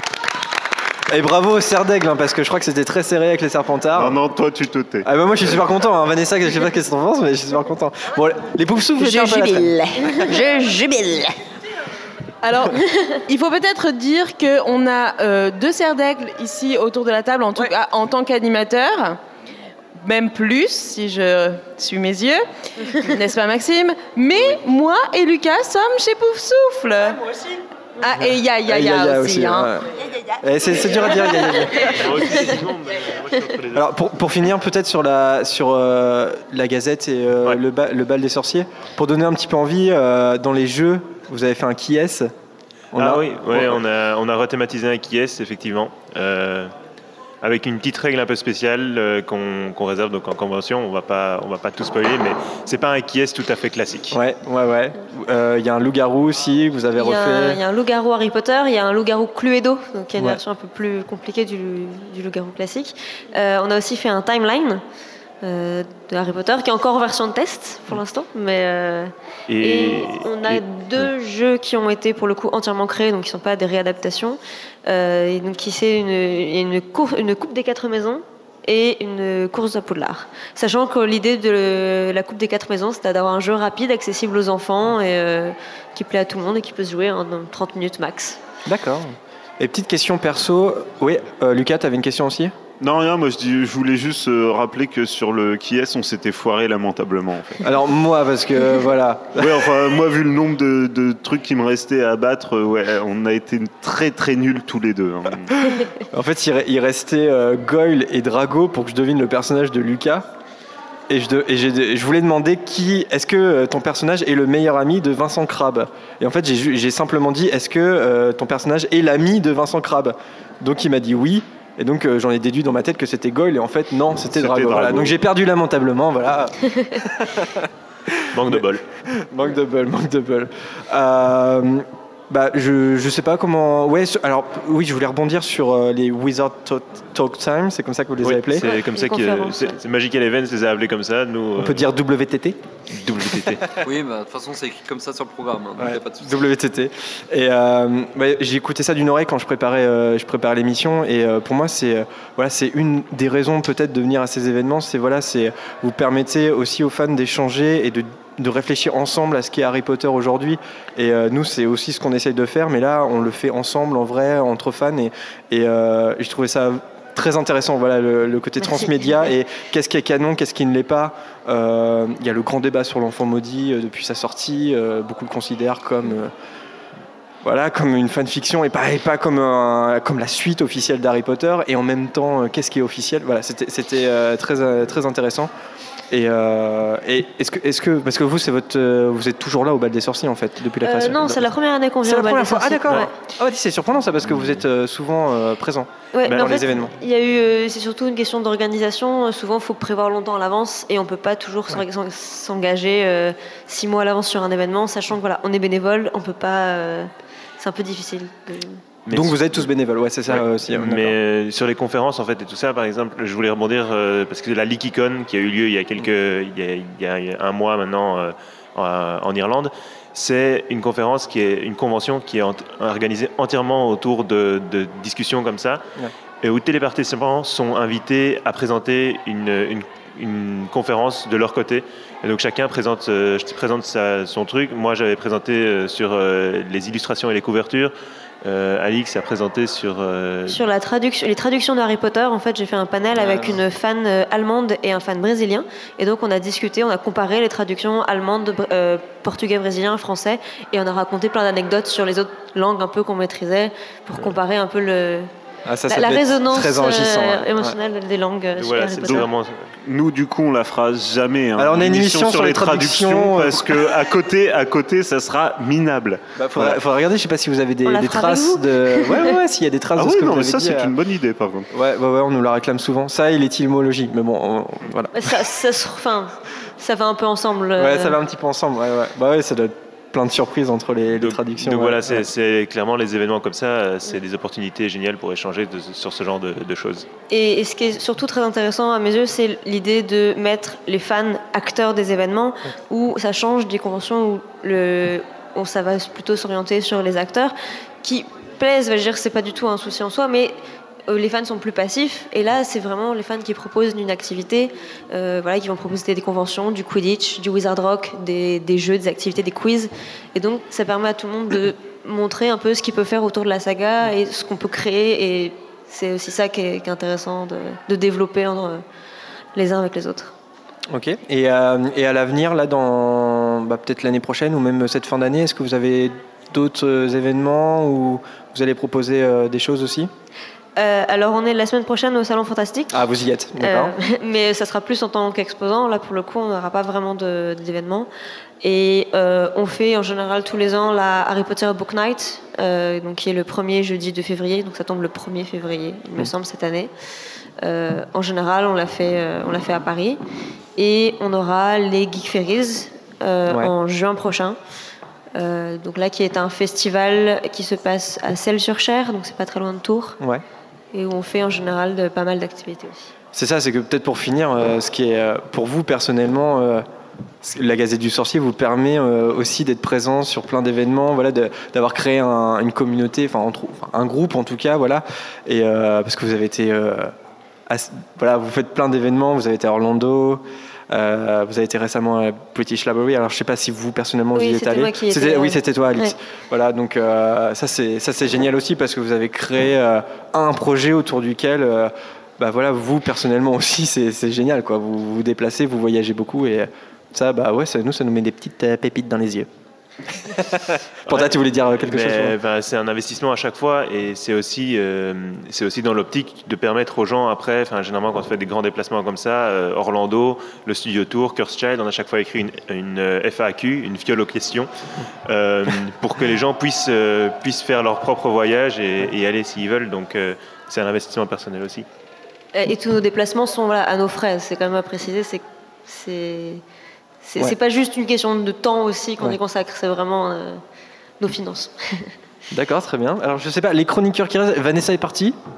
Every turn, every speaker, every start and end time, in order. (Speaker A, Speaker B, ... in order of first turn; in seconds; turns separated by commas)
Speaker A: 1.1-4.2, Speaker B: 4.0-5.1, Speaker A: 5.0-9.8, Speaker C: 9.0-11.4, Speaker D: 12.4-19.2, Speaker D: 20.0-27.2, Speaker D: 28.0-29.7, Speaker A: 28.7-29.9, Speaker A: 30.4-32.3, Speaker E: 31.8-33.8, Speaker A: 33.7-42.3, Speaker A: 42.9-43.8, Speaker E: 43.0-46.7, Speaker E: 47.4-54.2, Speaker A: 54.1-57.6, Speaker F: 57.0-64.8, Speaker F: 65.4-88.4, Speaker E: 69.5-71.1, Speaker A: 88.7-92.5, Speaker B: 92.8-97.7, Speaker A: 97.6-99.6, Speaker B: 99.4-105.5, Speaker A: 106.1-110.3, Speaker A: 111.1-138.7, Speaker B: 124.3-125.1, Speaker E: 128.3-128.8, Speaker E: 138.2-141.9, Speaker F: 138.6-139.8, Speaker A: 141.6-142.6, Speaker E: 142.9-143.7, Speaker G: 143.8-146.4, Speaker A: 145.8-176.3, Speaker F: 168.6-169.2, Speaker A: 177.4-185.5, Speaker A: 186.1-191.5, Speaker F: 190.8-193.1, Speaker A: 192.0-196.9, Speaker F: 196.1-208.8, Speaker E: 196.3-196.6, Speaker E: 209.1-209.5, Speaker A: 209.1-211.2, Speaker E: 210.3-225.8, Speaker E: 226.4-237.9, Speaker E: 238.4-240.7, Speaker F: 240.5-255.3, Speaker A: 255.7-257.8, Speaker F: 255.9-259.3, Speaker E: 258.6-259.7, Speaker B: 259.8-266.8, Speaker A: 261.6-263.8, Speaker A: 266.4-270.9, Speaker F: 267.9-269.4, Speaker B: 270.0-271.7, Speaker A: 271.7-275.1, Speaker F: 275.1-278.2, Speaker A: 277.8-282.3, Speaker E: 281.2-287.1, Speaker F: 287.3-318.8, Speaker F: 319.6-320.3, Speaker A: 320.9-330.1, Speaker F: 330.8-333.0, Speaker A: 332.9-334.0, Speaker F: 333.6-338.1, Speaker F: 338.6-346.9, Speaker F: 347.6-350.2, Speaker F: 350.8-354.6, Speaker A: 353.5-353.7, Speaker F: 355.4-360.2, Speaker F: 360.9-363.1, Speaker A: 363.3-366.9, Speaker A: 367.4-377.1, Speaker A: 377.7-399.5, Speaker F: 384.4-386.1, Speaker A: 400.3-402.4, Speaker E: 401.1-414.7, Speaker E: 415.3-421.9, Speaker F: 422.5-426.6, Speaker F: 427.2-430.6, Speaker F: 431.2-432.1, Speaker A: 432.5-435.4